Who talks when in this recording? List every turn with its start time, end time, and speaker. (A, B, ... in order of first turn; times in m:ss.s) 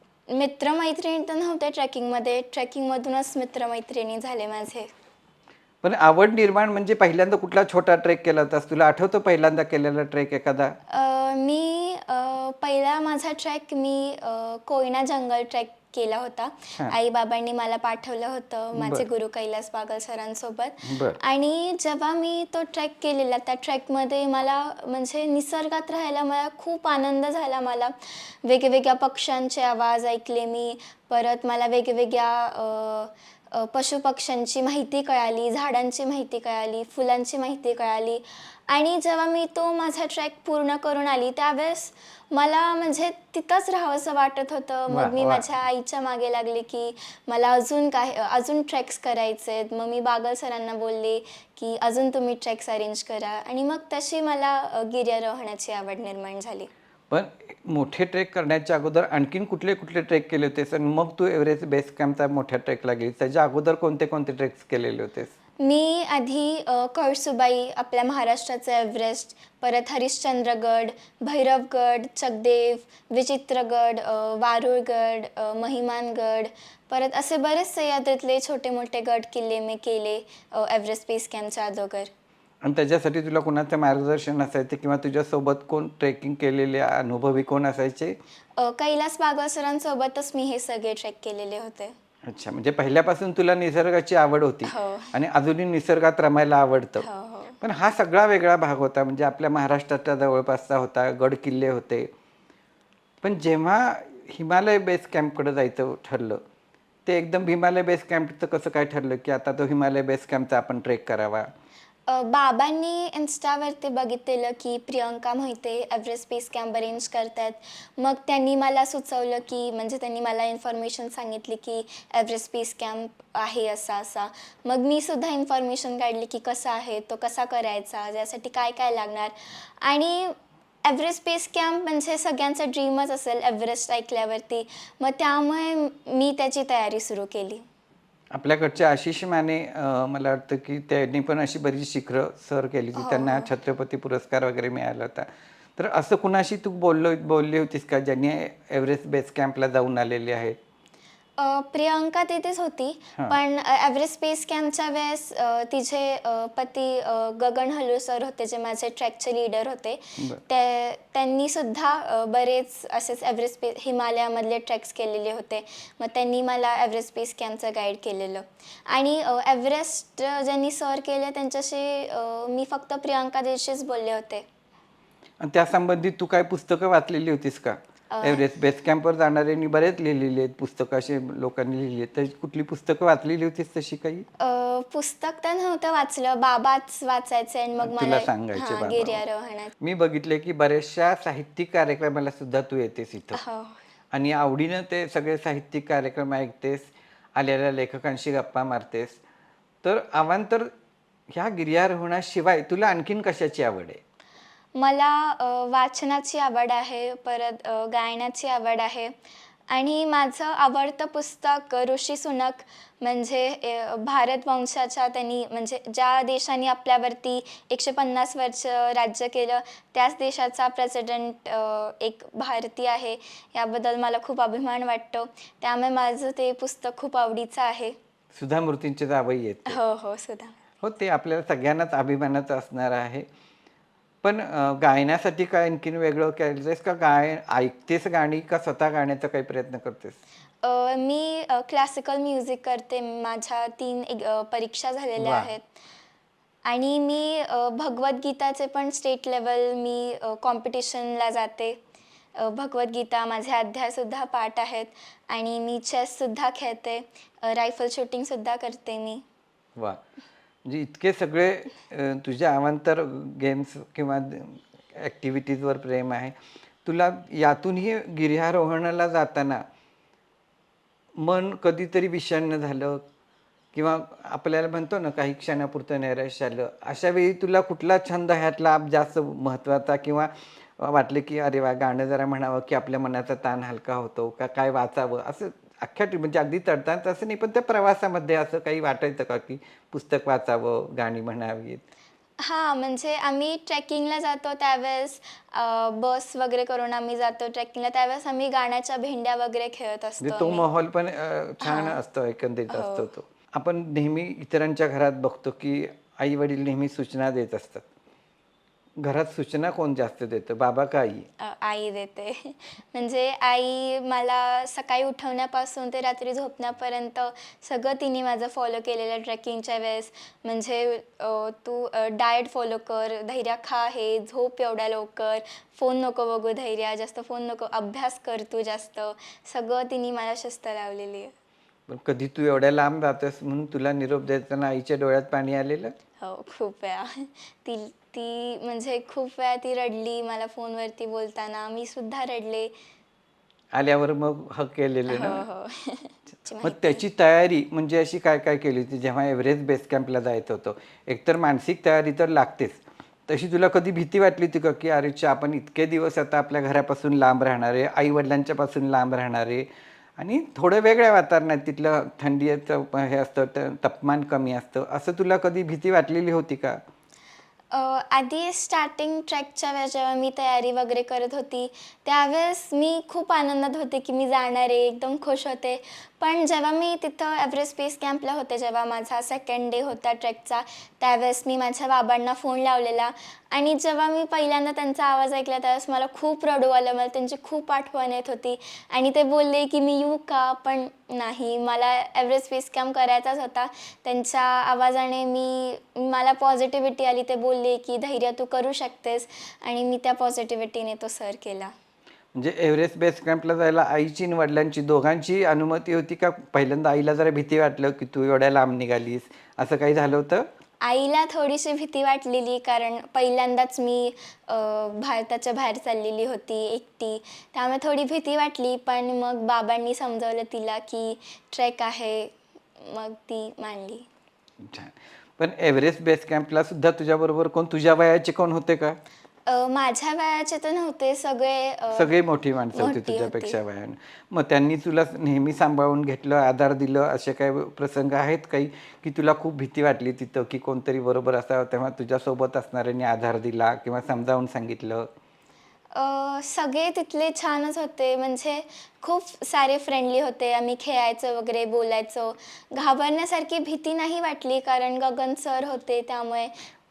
0:00.3-0:04.9 A
0:05.8-0:10.8 B
0:10.9-0:56.7 A
0:18.8-0:19.1 B
0:20.8-0:21.2 B
0:44.9-0:45.5 B
0:57.1-1:05.3 B
1:05.6-1:22.1 A
1:22.6-1:28.2 B
1:28.6-1:32.0 A
1:32.2-1:37.1 B
1:34.7-1:35.1 A
1:37.0-1:37.6 A
1:37.6-1:42.1 B
1:43.2-1:46.4 B
1:47.1-1:51.5 B
1:52.1-2:17.6 A
2:18.3-2:30.6 B
2:23.0-2:23.5 A
2:31.4-2:54.5 A
2:55.4-3:04.2 B
2:58.1-2:58.4 A
3:04.4-3:09.7 A
3:07.8-3:09.2 B
3:09.8-3:13.4 B
3:13.3-3:13.8 A
3:14.1-3:19.2 B
3:19.8-3:20.7 B
3:21.3-3:24.0 B
3:24.8-3:29.1 A
3:29.7-3:48.0 A
3:48.3-3:49.8 B
3:49.7-3:50.6 A
3:50.8-3:53.3 B
3:54.2-4:00.2 B
4:00.6-4:05.7 A
4:05.2-4:05.5 B
4:06.7-4:11.8 A
4:12.4-4:19.2 A
4:19.8-4:20.0 B
4:20.6-4:29.6 B
4:31.2-4:33.0 B
4:33.7-4:51.8 B
4:52.4-5:00.7 A
5:00.2-5:07.9 B
5:01.6-5:02.0 A
5:02.7-5:03.1 A
5:09.0-5:11.3 B
5:11.4-5:31.3 A
5:31.9-5:35.9 B
5:36.2-5:42.7 A
5:43.7-5:45.4 B
5:45.1-5:47.0 A
5:46.6-5:59.7 B
6:00.2-6:06.8 B
6:07.7-6:41.7 A
6:42.3-6:50.5 B
6:50.8-7:04.1 A
7:04.6-7:09.0 B
7:09.5-7:12.1 A
7:12.0-7:25.1 B
7:12.7-7:13.6 A
7:25.9-7:36.5 A